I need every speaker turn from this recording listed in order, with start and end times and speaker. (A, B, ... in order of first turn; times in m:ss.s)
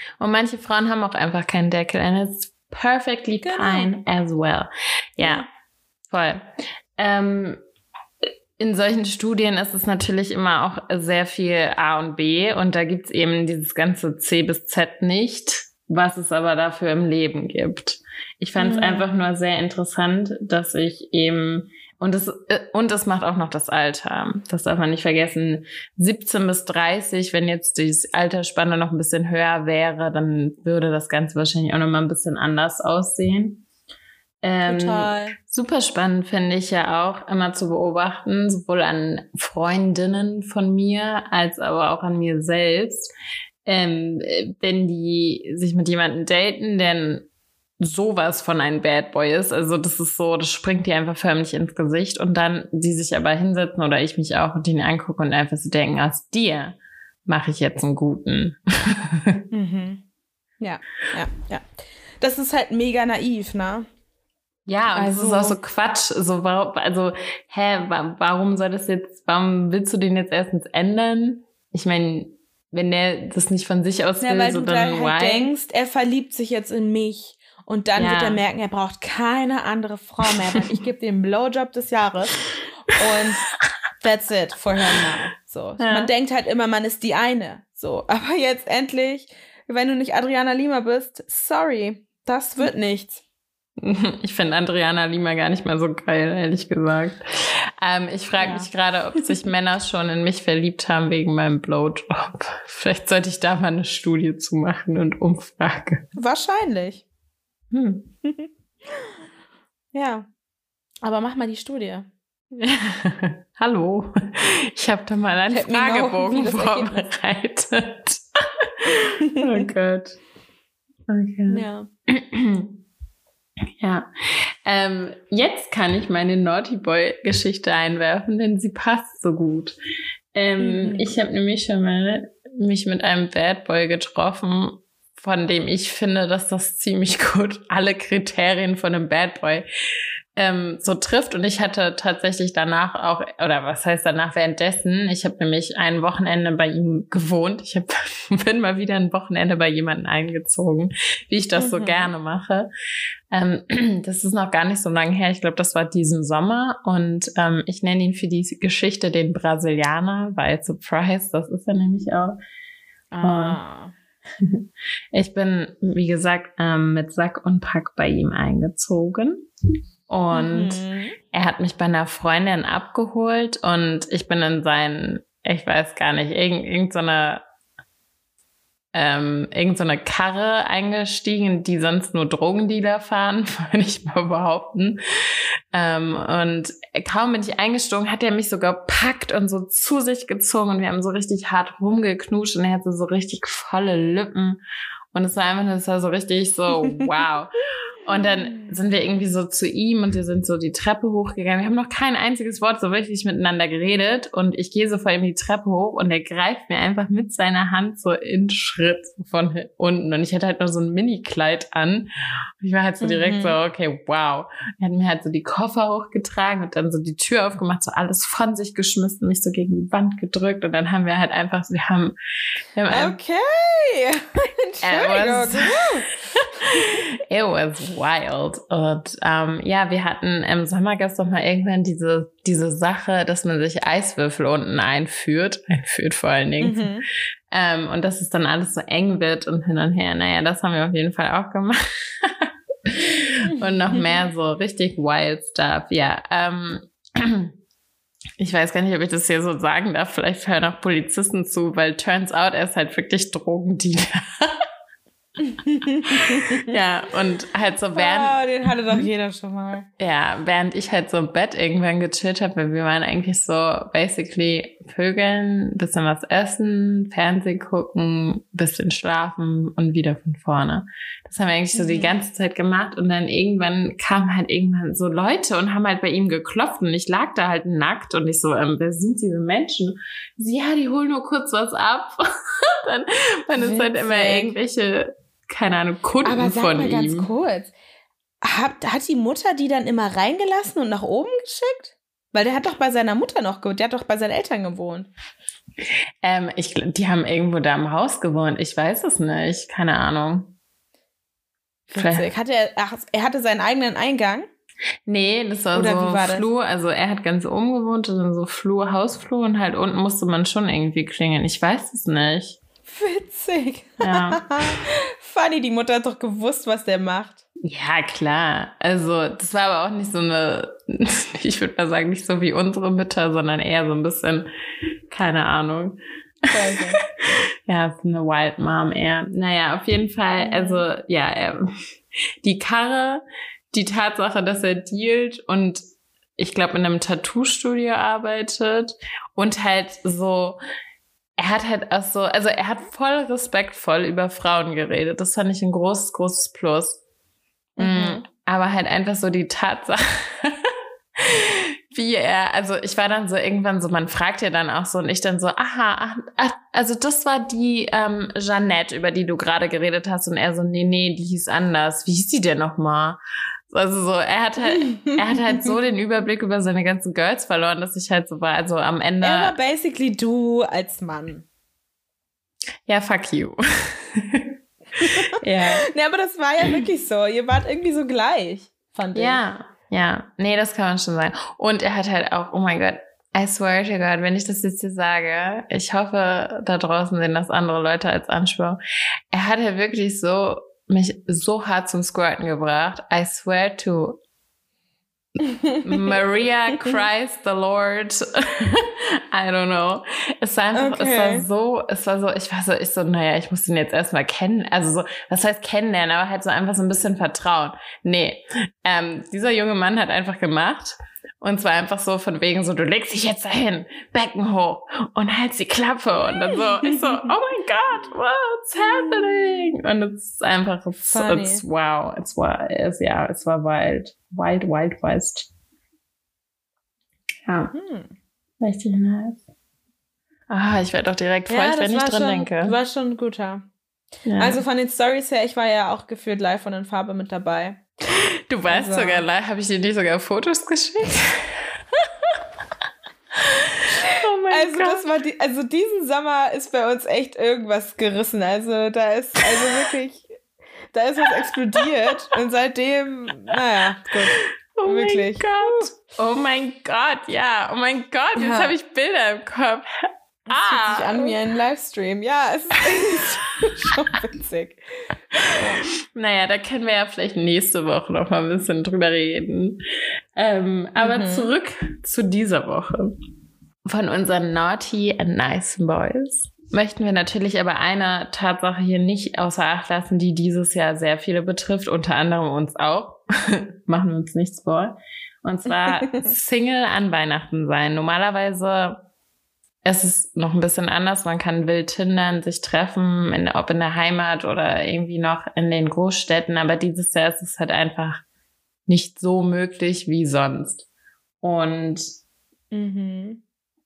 0:00.2-0:05.4 A
0:03.4-0:03.9 B
0:05.2-0:05.4 B
0:06.1-0:06.4 A
0:07.0-0:07.6 A
0:08.6-0:33.6 A
0:18.6-0:19.2 B
0:34.4-0:43.1 A
0:34.6-0:35.4 B
0:43.6-0:47.3 A
0:47.8-0:59.4 A
0:59.5-1:00.0 B
1:00.6-1:01.6 B
1:02.2-1:03.9 B
1:04.7-1:15.5 A
1:04.9-1:05.6 B
1:14.2-1:23.5 B
1:18.0-1:18.4 A
1:24.0-1:33.2 B
1:25.8-1:26.1 A
1:33.8-1:46.1 A
1:38.4-1:38.7 B
1:46.2-1:47.0 B
1:47.7-1:48.1 A
1:48.2-1:49.1 B
1:49.9-1:50.3 B
1:51.0-1:52.1 B
1:52.6-2:00.2 A
1:55.5-1:57.0 B
2:01.1-2:02.8 A
2:01.5-2:01.9 B
2:03.8-2:09.7 A
2:10.4-2:19.7 A
2:10.6-2:11.1 B
2:20.4-2:32.7 A
2:31.6-2:32.1 B
2:33.3-2:42.4 A
2:43.1-2:43.9 B
2:43.2-2:43.6 A
2:44.4-2:49.5 A
2:50.1-2:57.4 A
2:50.3-2:51.2 B
2:58.9-3:05.0 A
3:05.7-3:14.6 A
3:15.1-3:32.1 A
3:18.4-3:18.7 B
3:32.6-3:42.1 A
3:33.0-3:33.6 B
3:42.8-3:43.2 A
3:42.9-3:46.2 B
3:44.8-3:56.9 A
3:56.6-3:57.1 B
3:57.5-4:07.5 A
4:08.4-4:14.6 A
4:15.4-4:16.7 B
4:16.1-4:18.4 A
4:18.0-4:19.9 B
4:20.0-4:47.3 A
4:31.7-4:32.1 B
4:43.6-4:44.6 B
4:46.2-4:47.7 B
4:48.4-4:55.1 B
4:56.2-5:00.5 A
5:01.9-5:04.5 B
5:02.0-5:02.3 A
5:05.1-5:12.6 A
5:05.7-5:06.5 B
5:12.9-5:17.4 B
5:14.0-5:14.5 A
5:17.6-5:24.4 A
5:25.1-5:26.0 A
5:26.5-5:27.0 B
5:27.7-5:31.7 A
5:30.4-5:30.8 B
5:32.4-5:35.8 A
5:36.4-5:40.6 A
5:41.4-5:47.0 A
5:47.8-5:48.2 B
5:47.8-6:09.6 A
6:04.9-6:05.1 B
6:09.2-6:11.4 B
6:12.9-6:14.5 A
6:15.0-6:15.8 A
6:15.8-6:19.4 B
6:19.1-6:28.8 A
6:29.3-6:34.2 A
6:35.4-6:35.8 B
6:35.8-7:05.5 A
6:40.7-6:41.4 B
6:58.9-6:59.3 B
7:01.0-7:01.6 B
7:07.5-7:07.7 A
7:07.7-7:08.1 B
7:08.6-7:09.4 A
7:10.5-7:12.7 A
7:11.5-7:13.7 B
7:14.3-7:14.6 A
7:14.4-7:17.8 B
7:18.5-7:22.4 A
7:18.7-7:19.3 B
7:23.4-7:25.0 A
7:24.5-7:30.4 B
7:30.9-7:35.9 B
7:34.8-7:39.9 A
7:38.4-7:38.7 B
7:40.5-7:45.8 B
7:40.5-7:41.4 A
7:45.6-7:49.8 A
7:50.4-7:53.1 A
7:51.0-7:51.5 B
7:53.9-8:09.0 A
8:05.9-8:06.3 B
8:09.8-8:18.2 A
8:18.9-8:20.8 A
8:21.4-8:22.0 A
8:22.7-8:23.4 B